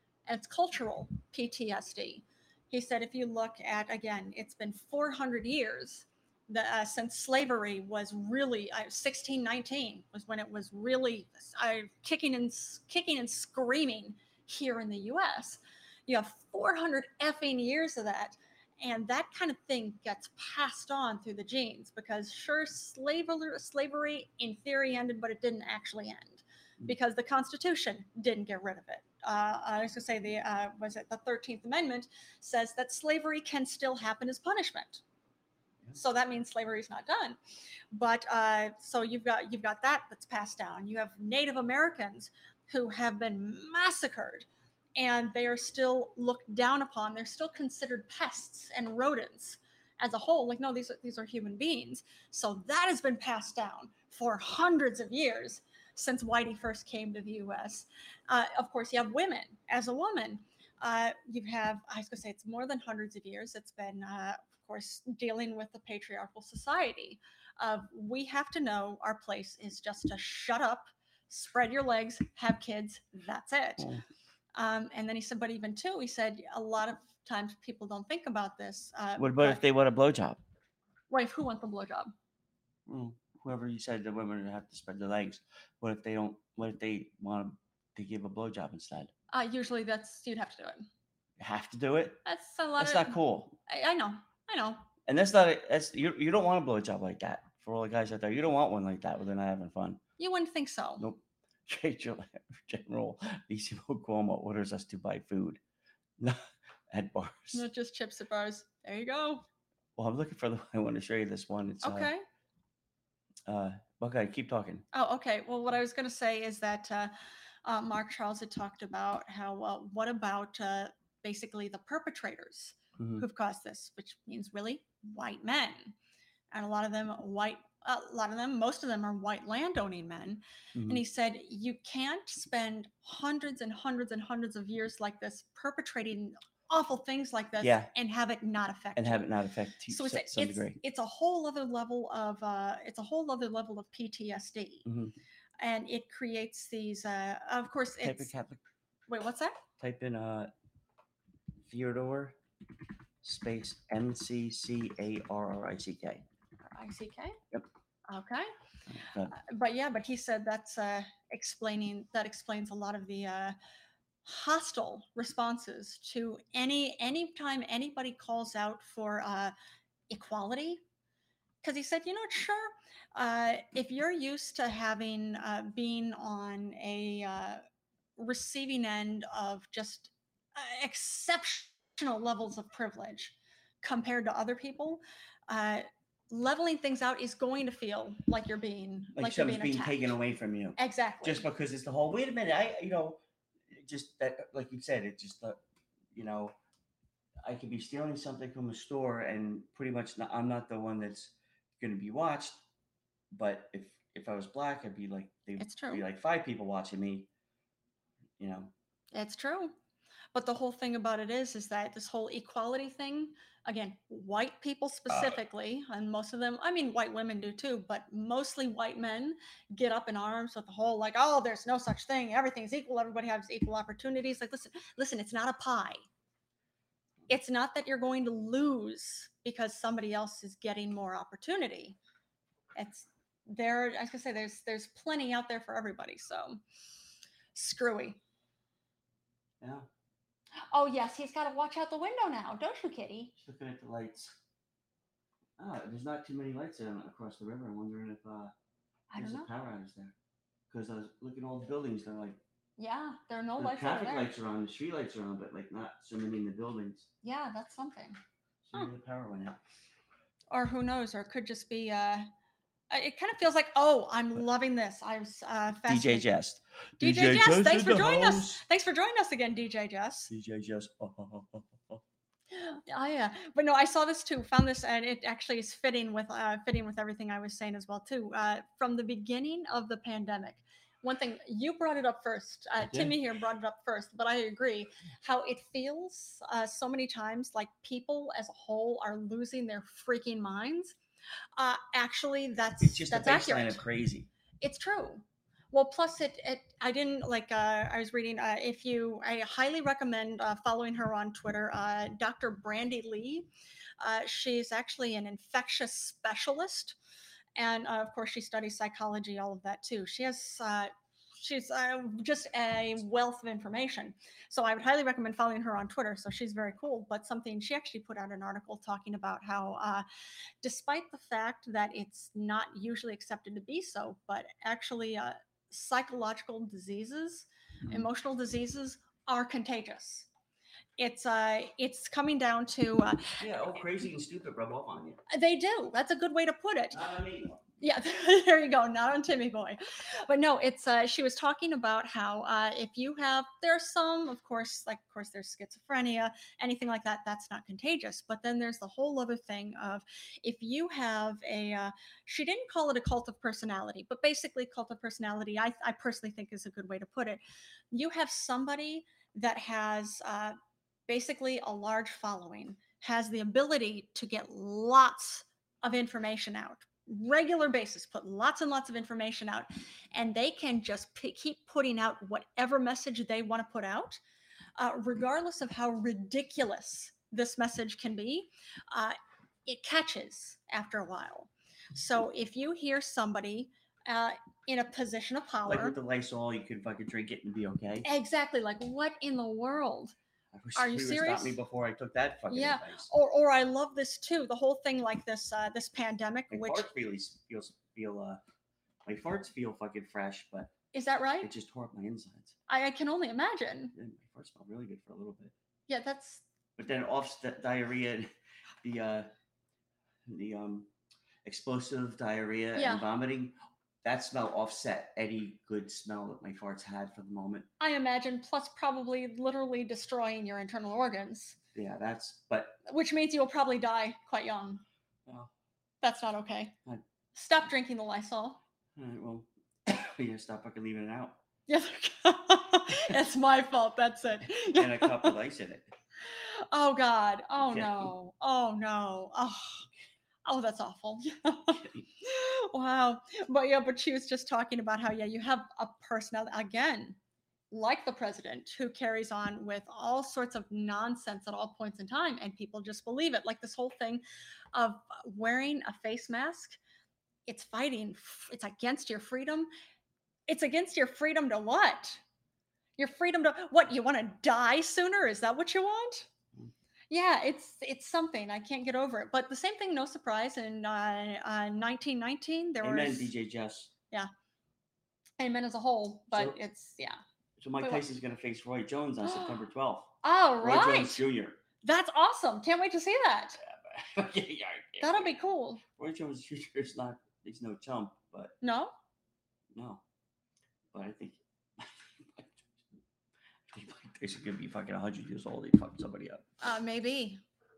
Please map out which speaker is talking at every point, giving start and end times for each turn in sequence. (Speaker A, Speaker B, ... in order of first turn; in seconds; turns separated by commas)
Speaker A: 0.3-35.0, Speaker A: 35.9-37.4, Speaker A: 37.9-44.5, Speaker A: 45.0-73.9, Speaker A: 74.5-79.6, Speaker B: 79.2-80.4, Speaker A: 81.1-82.1, Speaker B: 82.9-89.1, Speaker A: 89.3-90.9, Speaker B: 91.4-92.2, Speaker A: 92.2-94.8, Speaker B: 92.8-93.6, Speaker B: 95.1-100.0, Speaker A: 100.2-101.0, Speaker B: 101.0-105.6, Speaker B: 106.2-107.6, Speaker A: 107.5-109.4, Speaker B: 110.0-112.1, Speaker A: 111.8-112.2, Speaker B: 113.5-114.8, Speaker A: 114.9-117.1, Speaker A: 117.6-125.9, Speaker B: 123.0-123.2, Speaker A: 126.5-139.2, Speaker B: 130.7-131.0, Speaker B: 137.6-137.9, Speaker B: 138.9-140.8, Speaker A: 139.9-144.8, Speaker B: 144.8-145.1, Speaker A: 145.6-148.3, Speaker B: 148.0-148.6, Speaker A: 149.1-149.6, Speaker B: 149.8-150.5, Speaker B: 151.6-152.4, Speaker B: 153.2-156.2, Speaker A: 156.7-157.3, Speaker A: 158.1-158.5, Speaker B: 158.9-159.3, Speaker A: 159.3-163.6, Speaker A: 164.2-169.5, Speaker A: 170.1-170.8, Speaker A: 171.6-177.6, Speaker A: 178.2-190.1, Speaker B: 189.1-193.2, Speaker A: 190.8-191.4, Speaker B: 193.7-195.6, Speaker B: 196.1-196.5, Speaker B: 197.4-202.6, Speaker B: 203.3-207.3, Speaker A: 205.6-206.0, Speaker B: 208.4-208.7, Speaker A: 209.1-209.7, Speaker A: 210.3-226.0, Speaker B: 215.1-215.4, Speaker A: 227.3-232.0, Speaker A: 232.7-236.6, Speaker A: 237.5-238.2, Speaker B: 239.6-239.9, Speaker A: 240.7-243.3, Speaker B: 243.4-244.3, Speaker B: 245.6-248.5, Speaker A: 249.1-249.5, Speaker B: 249.2-250.1, Speaker B: 250.7-252.4, Speaker A: 252.8-254.3, Speaker B: 253.6-257.1, Speaker A: 257.2-258.2, Speaker B: 258.6-259.6, Speaker A: 260.5-262.3, Speaker A: 262.9-266.3, Speaker B: 265.9-268.6, Speaker A: 267.0-270.3, Speaker B: 270.3-272.0, Speaker A: 272.5-290.9, Speaker B: 282.8-283.2, Speaker A: 291.6-293.8, Speaker B: 292.8-294.3, Speaker A: 294.6-303.5, Speaker A: 304.0-307.0, Speaker A: 307.6-320.0, Speaker A: 320.6-330.3, Speaker A: 331.0-333.4, Speaker B: 333.4-335.2, Speaker A: 335.3-337.0, Speaker B: 336.9-337.6, Speaker A: 337.8-357.4, Speaker A: 357.9-360.6, Speaker A: 361.1-374.2, Speaker A: 374.8-386.0, Speaker B: 385.6-388.1, Speaker A: 388.0-390.1, Speaker B: 390.5-393.1, Speaker A: 390.8-391.6, Speaker A: 392.5-396.9, Speaker B: 396.5-398.4, Speaker B: 399.0-400.7, Speaker A: 400.9-401.5, Speaker B: 401.4-402.5, Speaker A: 402.7-403.9, Speaker B: 403.9-405.5, Speaker A: 405.9-406.4, Speaker B: 406.8-408.3, Speaker B: 408.8-409.3, Speaker B: 410.2-410.9, Speaker B: 411.4-417.7, Speaker A: 412.8-413.1, Speaker A: 417.8-421.6, Speaker B: 421.7-422.8, Speaker A: 422.9-424.8, Speaker B: 425.2-425.5, Speaker A: 426.0-426.8, Speaker A: 427.3-428.6, Speaker B: 428.9-431.4, Speaker A: 431.7-435.4, Speaker B: 434.8-435.9, Speaker A: 436.2-439.9, Speaker B: 437.6-438.1, Speaker A: 440.4-447.2, Speaker B: 441.8-442.1, Speaker A: 447.7-454.2, Speaker A: 454.7-456.8, Speaker A: 457.4-459.7, Speaker A: 460.5-462.2, Speaker A: 463.0-466.3, Speaker A: 467.1-473.3, Speaker B: 472.8-473.9, Speaker A: 475.4-477.2, Speaker B: 476.3-476.6, Speaker B: 477.6-481.6, Speaker A: 477.8-478.1, Speaker A: 479.2-479.7, Speaker A: 480.2-481.2, Speaker A: 481.8-483.6, Speaker B: 483.6-488.6, Speaker A: 485.0-485.8, Speaker A: 488.6-488.9, Speaker B: 489.7-490.0, Speaker B: 490.9-493.0, Speaker B: 493.7-496.4, Speaker A: 496.6-497.4